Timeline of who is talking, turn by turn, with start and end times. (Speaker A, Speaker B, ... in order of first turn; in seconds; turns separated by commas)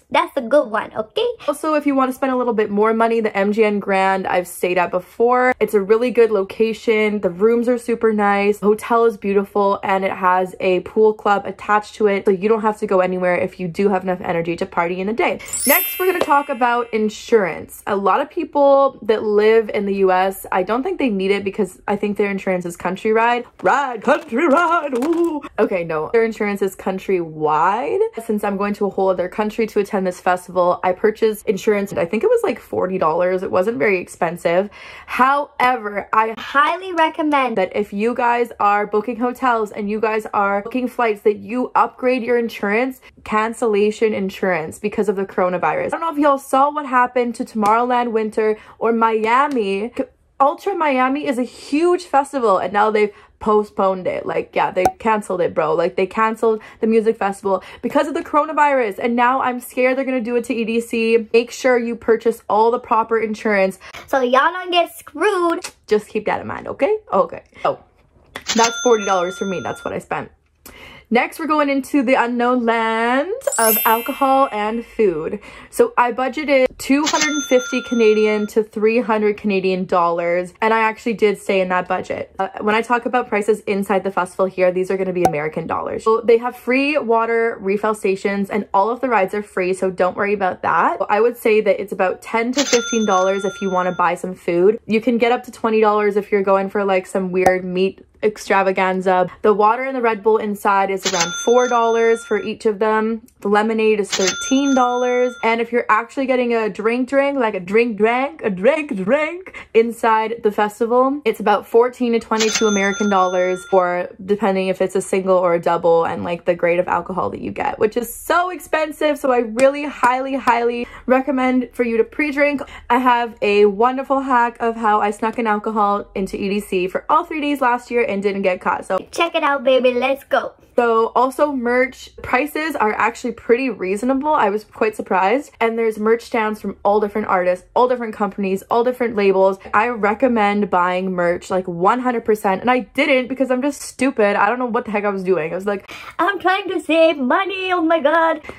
Speaker A: 0.1-1.3, Speaker B: 1.5-36.4, Speaker A: 36.4-37.6, Speaker B: 37.5-63.8, Speaker A: 64.1-65.7, Speaker B: 65.7-67.8, Speaker B: 68.5-70.3, Speaker B: 71.1-129.0, Speaker A: 129.0-130.6, Speaker B: 130.8-145.9, Speaker A: 146.2-148.4